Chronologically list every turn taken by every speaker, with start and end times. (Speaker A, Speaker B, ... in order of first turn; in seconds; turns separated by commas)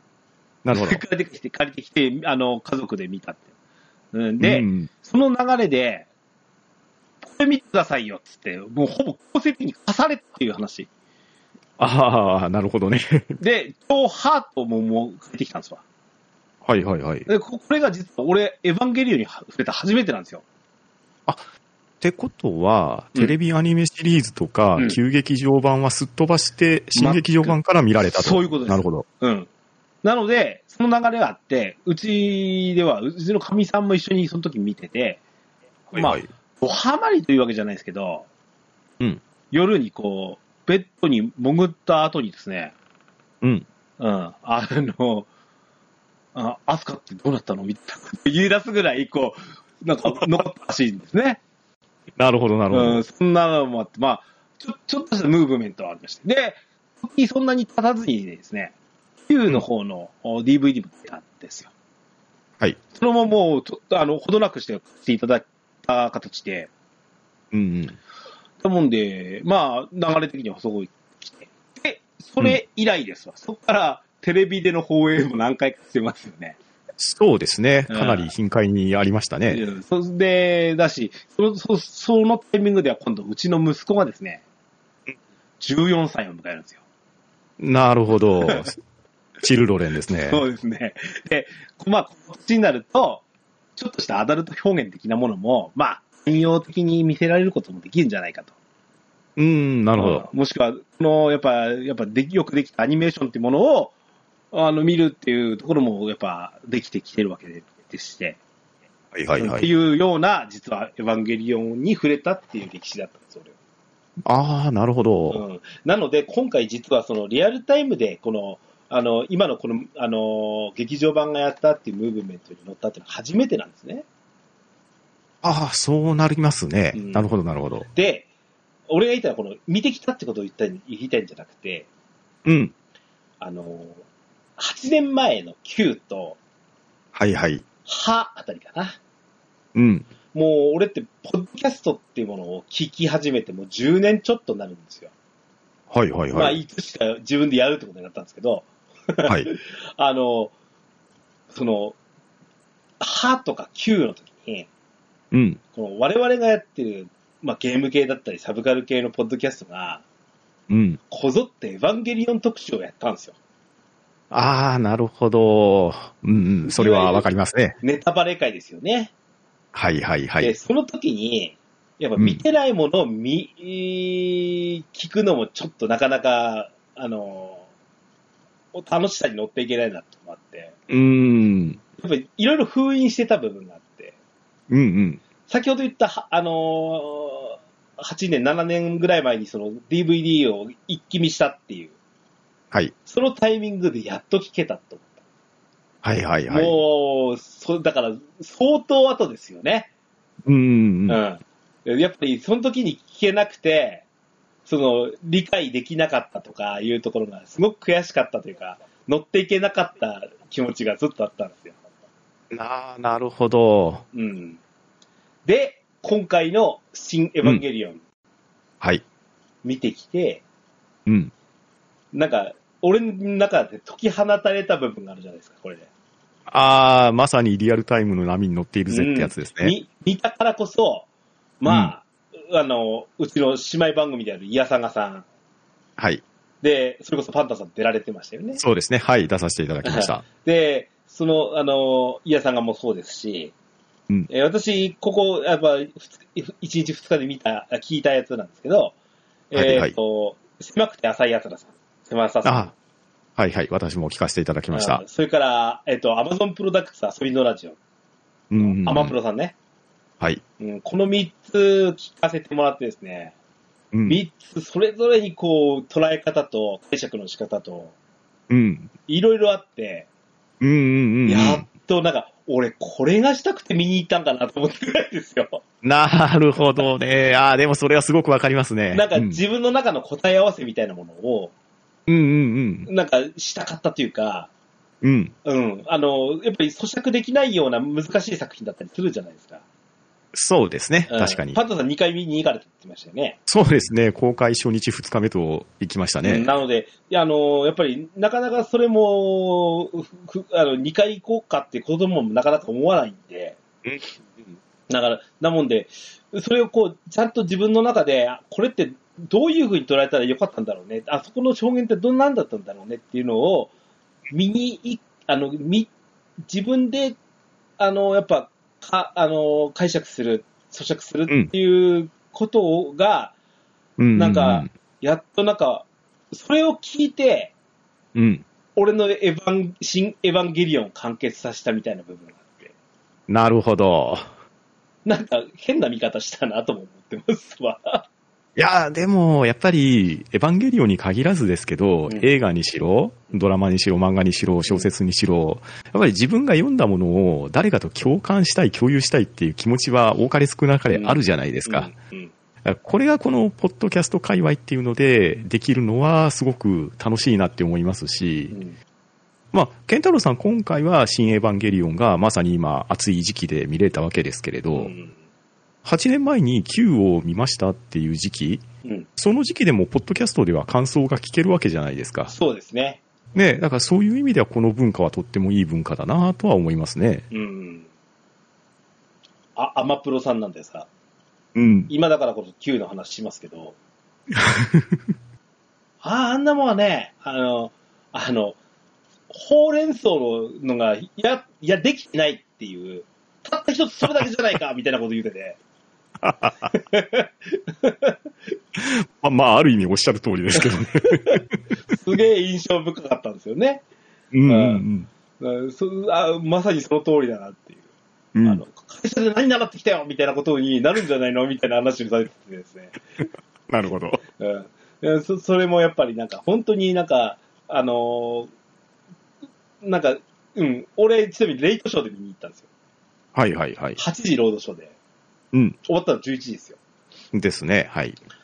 Speaker A: 0.6-1.0, Speaker B: 0.7-3.5, Speaker B: 4.1-6.1, Speaker A: 4.4-4.9, Speaker B: 7.2-10.9, Speaker A: 11.8-13.4, Speaker B: 13.4-15.8, Speaker A: 16.6-17.3, Speaker B: 17.3-20.4, Speaker A: 22.0-29.1, Speaker B: 26.9-27.6, Speaker B: 28.1-29.5, Speaker B: 30.0-35.2, Speaker A: 35.9-36.3, Speaker B: 35.9-38.2, Speaker B: 39.5-42.7, Speaker B: 44.0-45.3, Speaker B: 46.3-51.4, Speaker A: 52.2-53.0, Speaker B: 52.7-58.7, Speaker B: 59.3-61.7, Speaker B: 62.9-66.7, Speaker A: 67.5-68.0, Speaker B: 68.6-76.6, Speaker A: 77.0-79.6, Speaker B: 77.9-78.3, Speaker B: 79.5-84.4, Speaker B: 85.6-86.8, Speaker A: 87.6-88.8, Speaker B: 88.4-88.7, Speaker A: 89.4-90.4, Speaker B: 90.2-93.2, Speaker B: 93.8-98.5, Speaker A: 99.3-100.3, Speaker B: 100.0-103.9, Speaker B: 104.5-108.4, Speaker A: 109.1-109.7, Speaker B: 109.4-113.5, Speaker A: 114.2-115.4, Speaker B: 115.3-124.0, Speaker A: 125.4-127.9, Speaker B: 126.9-127.3, Speaker B: 127.9-128.3, Speaker B: 128.9-131.9, Speaker A: 132.4-132.7, Speaker B: 133.4-134.0, Speaker B: 134.6-136.4, Speaker A: 137.1-137.6, Speaker B: 137.8-139.0, Speaker A: 139.7-140.1, Speaker B: 140.3-145.1, Speaker A: 145.9-146.6, Speaker B: 146.3-150.5, Speaker B: 151.5-151.9, Speaker B: 153.0-154.7, Speaker A: 155.3-155.6, Speaker B: 155.7-160.0, Speaker A: 160.7-161.0, Speaker B: 161.1-163.3, Speaker A: 164.3-167.8, Speaker B: 166.7-167.2, Speaker B: 167.8-169.1, Speaker A: 169.7-170.5, Speaker B: 170.4-177.6, Speaker B: 178.7-180.8, Speaker A: 180.9-181.8, Speaker B: 182.0-184.1, Speaker A: 184.7-185.2, Speaker B: 185.5-191.9, Speaker B: 193.1-195.2, Speaker A: 196.0-196.8, Speaker B: 196.5-199.9, Speaker A: 200.4-201.2, Speaker B: 201.1-204.0, Speaker B: 204.7-211.8, Speaker A: 212.5-214.0, Speaker B: 214.1-214.6, Speaker B: 215.4-218.0, Speaker B: 219.6-220.4, Speaker A: 221.1-221.3, Speaker B: 222.1-225.9, Speaker A: 226.5-229.8, Speaker B: 228.9-231.1, Speaker B: 231.6-235.2, Speaker A: 231.7-231.9, Speaker A: 236.0-236.2, Speaker B: 236.6-238.6, Speaker A: 238.6-240.2, Speaker B: 239.8-243.5, Speaker B: 244.3-248.9, Speaker B: 249.5-252.7, Speaker A: 249.5-249.9, Speaker A: 252.4-252.7, Speaker A: 253.4-255.0, Speaker B: 254.7-257.8, Speaker A: 258.5-259.1, Speaker B: 258.6-259.5, Speaker B: 260.6-263.3, Speaker A: 263.9-264.2, Speaker B: 264.1-267.9, Speaker A: 268.5-268.9, Speaker B: 269.1-270.1, Speaker A: 270.6-271.6, Speaker B: 271.2-275.6, Speaker A: 275.8-279.4, Speaker B: 278.9-281.5, Speaker A: 282.1-282.9, Speaker B: 282.9-284.5, Speaker A: 285.0-285.3, Speaker B: 285.4-289.6, Speaker A: 290.3-291.6, Speaker B: 291.1-293.4, Speaker A: 293.5-296.5, Speaker B: 296.2-303.6, Speaker B: 304.9-313.7, Speaker B: 314.3-315.9, Speaker B: 316.4-317.1, Speaker B: 317.8-323.3, Speaker A: 324.0-324.7, Speaker B: 324.1-327.5, Speaker A: 328.1-328.4, Speaker B: 328.8-332.7, Speaker A: 333.3-334.3, Speaker B: 335.0-338.0, Speaker A: 338.6-351.9, Speaker B: 350.9-352.3, Speaker A: 352.6-358.5, Speaker B: 358.5-358.8, Speaker A: 359.5-364.9, Speaker B: 364.7-365.1, Speaker A: 365.8-368.6, Speaker A: 369.2-372.3, Speaker B: 372.3-373.0, Speaker A: 373.3-377.3, Speaker B: 377.3-377.9, Speaker B: 379.6-380.9, Speaker A: 381.5-381.9, Speaker B: 381.9-383.8, Speaker A: 384.3-385.0, Speaker B: 386.0-388.6, Speaker B: 389.3-395.6, Speaker A: 396.2-396.6, Speaker B: 396.7-398.1, Speaker A: 398.8-401.6, Speaker B: 400.6-403.8, Speaker A: 404.3-405.1, Speaker B: 404.5-404.8, Speaker B: 405.4-407.8, Speaker A: 408.3-408.6, Speaker B: 408.4-412.9, Speaker A: 413.7-414.2, Speaker B: 414.4-418.5, Speaker B: 419.8-422.6, Speaker A: 423.3-424.0, Speaker B: 424.0-424.9, Speaker B: 425.8-426.8, Speaker A: 427.3-428.2